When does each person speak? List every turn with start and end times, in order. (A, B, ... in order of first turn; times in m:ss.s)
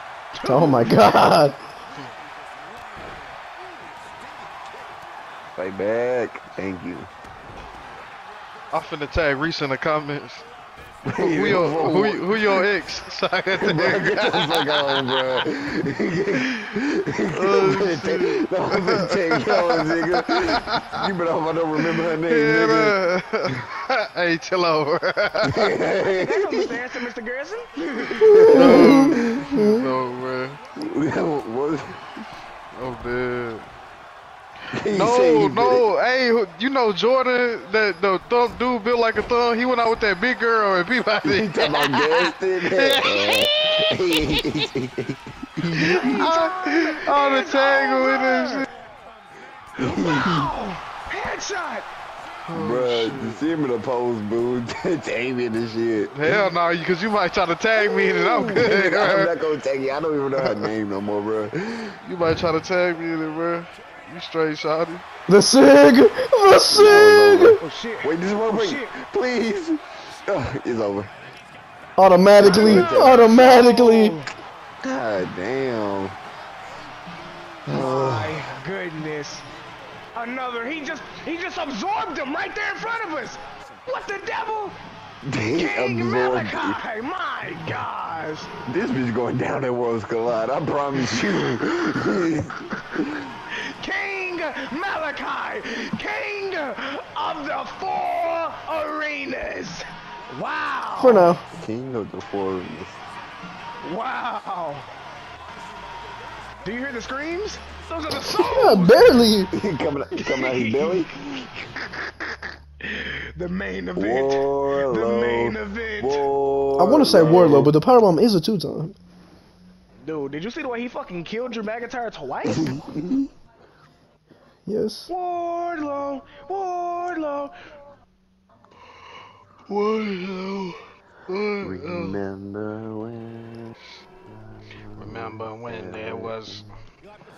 0:00.3-0:01.2 A
0:00.4-0:01.6 B
0:05.6-0:07.1 C
0:08.7-0:10.4 D
0:11.0-0:12.6 C
0:11.1-0:15.0 D
0:13.6-0:23.0 C
0:17.3-0:20.9 D
0:21.9-0:25.8 D
0:25.4-0:26.7 C
0:26.1-0:28.5 A
0:28.2-0:29.5 C
0:28.3-0:29.8 B
0:28.5-0:30.6 D
0:30.8-0:32.1 C
0:32.8-0:33.6 D
0:34.7-0:35.9 C
0:34.9-0:43.5 D
0:41.2-0:46.3 C
0:45.7-0:48.7 D
0:45.7-0:48.6 A
0:49.8-0:50.5 C
0:49.8-0:51.9 A
0:52.4-0:53.5 D
0:52.5-0:56.4 C
0:56.1-0:59.3 D
0:58.1-1:02.0 C
1:02.0-1:05.0 D
1:05.3-1:07.6 B
1:06.7-1:11.1 C
1:07.6-1:08.9 A
1:12.0-1:14.2 B
1:12.3-1:13.4 C
1:12.4-1:14.3 A
1:14.8-1:16.2 C
1:17.6-1:18.4 C
1:17.7-1:19.4 A
1:20.1-1:24.8 A
1:25.2-1:26.8 C
1:25.5-1:28.5 A
1:28.6-1:33.3 C
1:33.5-1:41.3 A
1:41.0-1:41.4 B
1:41.5-1:43.0 C
1:43.8-1:44.9 A
1:46.6-1:49.2 A
1:48.4-1:49.5 B
1:49.5-1:51.7 C
1:50.2-1:51.0 A
1:52.8-1:56.2 A
1:53.9-1:57.7 C
1:56.8-1:58.9 B
2:00.0-2:02.8 A
2:02.4-2:03.3 C
2:04.6-2:05.1 B
2:05.1-2:07.5 A
2:09.7-2:12.2 D
2:11.6-2:13.8 C
2:14.5-2:16.7 C
2:15.0-2:16.6 D